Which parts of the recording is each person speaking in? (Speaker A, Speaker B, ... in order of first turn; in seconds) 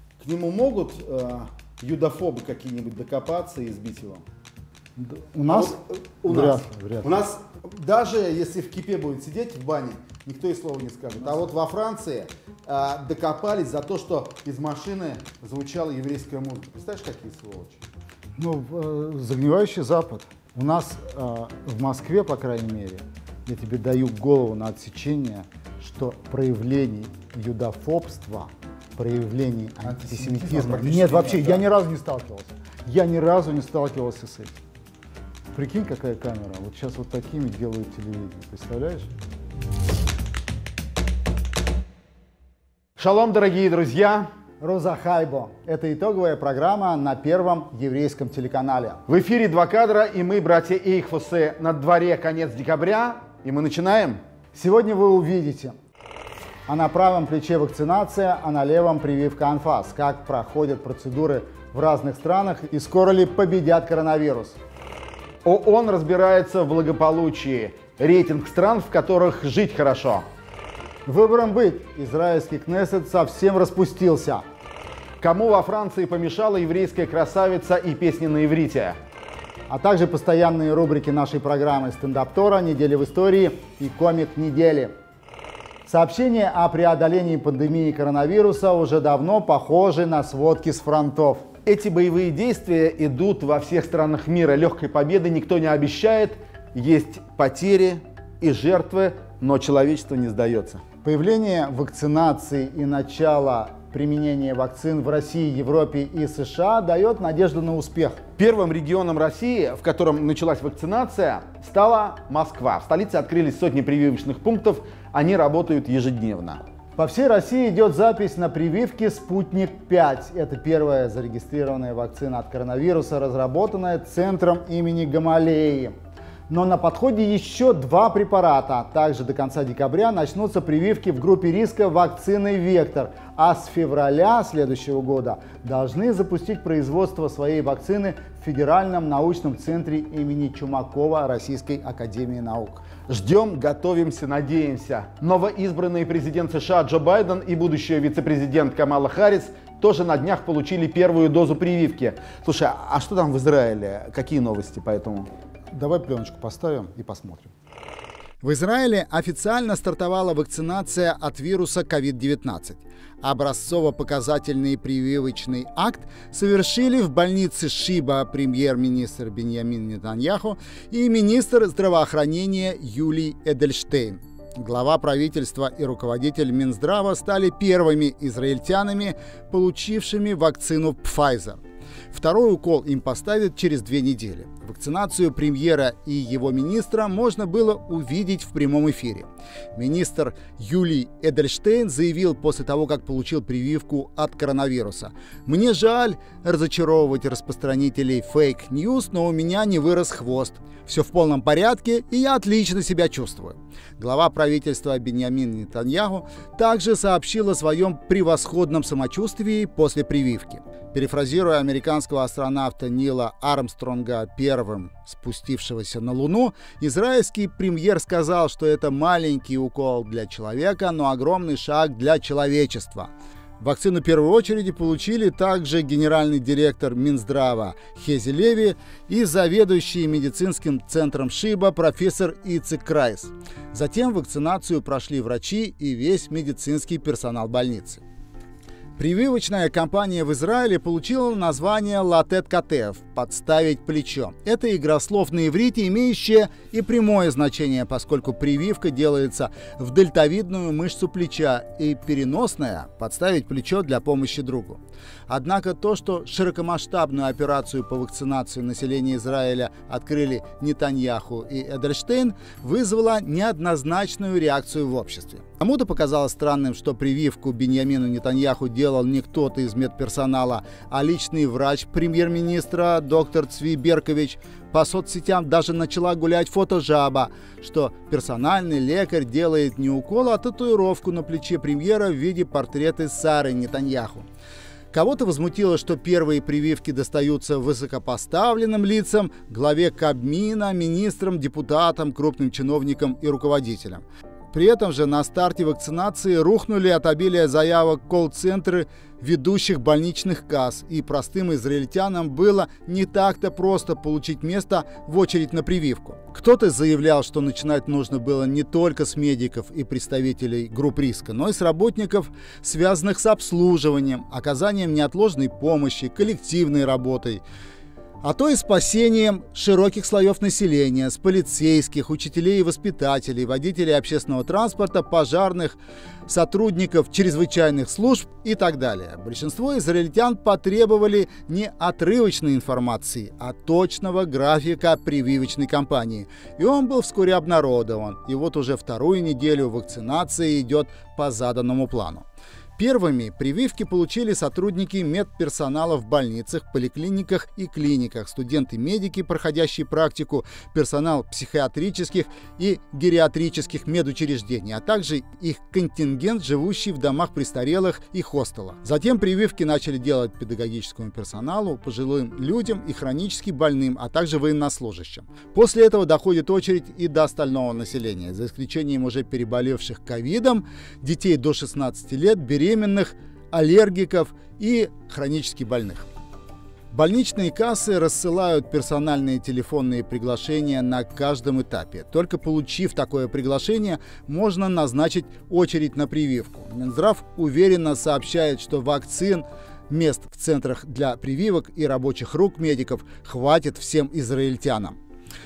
Speaker A: 0.2-4.2, 5.5-17.8, 29.8-31.6, 43.0-44.3, 49.1-54.2, 65.4-70.2, 75.2-79.0, 91.7-100.8, 108.4-116.6, 143.1-155.3
Speaker B: 5.0-7.1, 18.4-34.6, 35.5-39.1, 44.6-49.0, 54.5-55.8, 56.7-64.6, 71.1-74.4, 79.7-84.9, 85.9-91.5, 101.0-108.2, 117.0-126.0, 126.5-142.8, 155.7-157.5, 158.4-238.0, 239.0-284.2, 284.9-317.4, 318.2-342.2, 342.8-376.1, 376.9-394.9